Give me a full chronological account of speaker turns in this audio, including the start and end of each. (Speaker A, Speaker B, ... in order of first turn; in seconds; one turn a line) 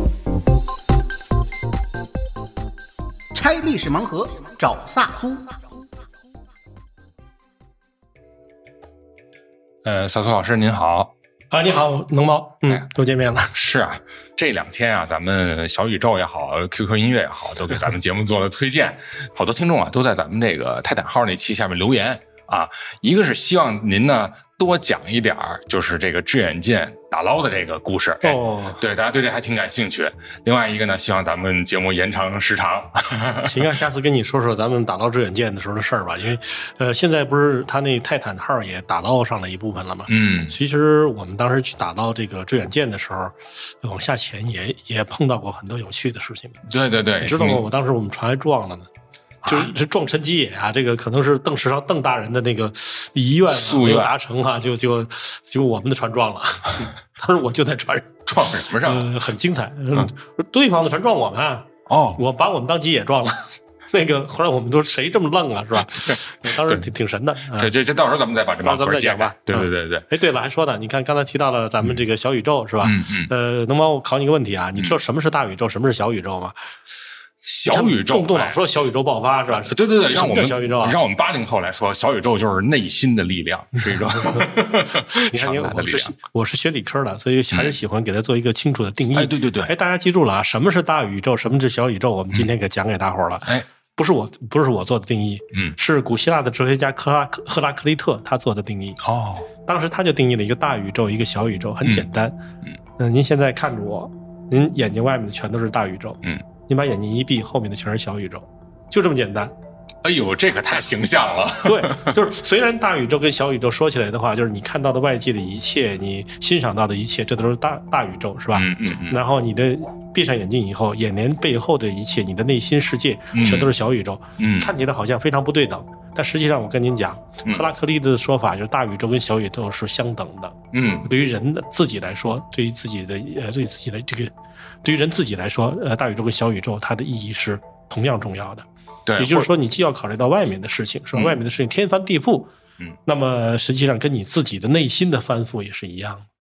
Speaker A: 3.3-5.5
Speaker B: 9.8-11.1
Speaker C: 11.5-13.5
Speaker B: 13.5-33.6
Speaker C: 28.2-28.8
Speaker C: 33.4-46.6
Speaker B: 40.1-40.6
Speaker B: 46.7-47.6
Speaker C: 47.2-48.9
Speaker B: 49.4-49.7
Speaker C: 49.5-67.7
Speaker B: 53.5-54.1
Speaker B: 58.3-59.1
Speaker B: 61.9-62.2
Speaker B: 65.9-66.9
Speaker B: 67.5-70.0
Speaker C: 68.6-76.6
Speaker B: 72.8-73.3
Speaker B: 77.4-78.6
Speaker C: 77.7-81.0
Speaker B: 79.6-86.1
Speaker C: 84.3-99.0
Speaker B: 87.5-87.8
Speaker B: 89.1-89.7
Speaker B: 99.0-99.5
Speaker C: 99.7-102.4
Speaker C: 103.0-109.5
Speaker B: 110.0-112.2
Speaker C: 111.6-134.3
Speaker B: 118.5-119.2
Speaker B: 123.3-123.7
Speaker B: 124.4-124.7
Speaker B: 130.7-131.1
Speaker C: 134.8-138.7
Speaker B: 139.1-139.5
Speaker C: 139.2-142.5
Speaker B: 141.1-141.4
Speaker C: 143.1-146.3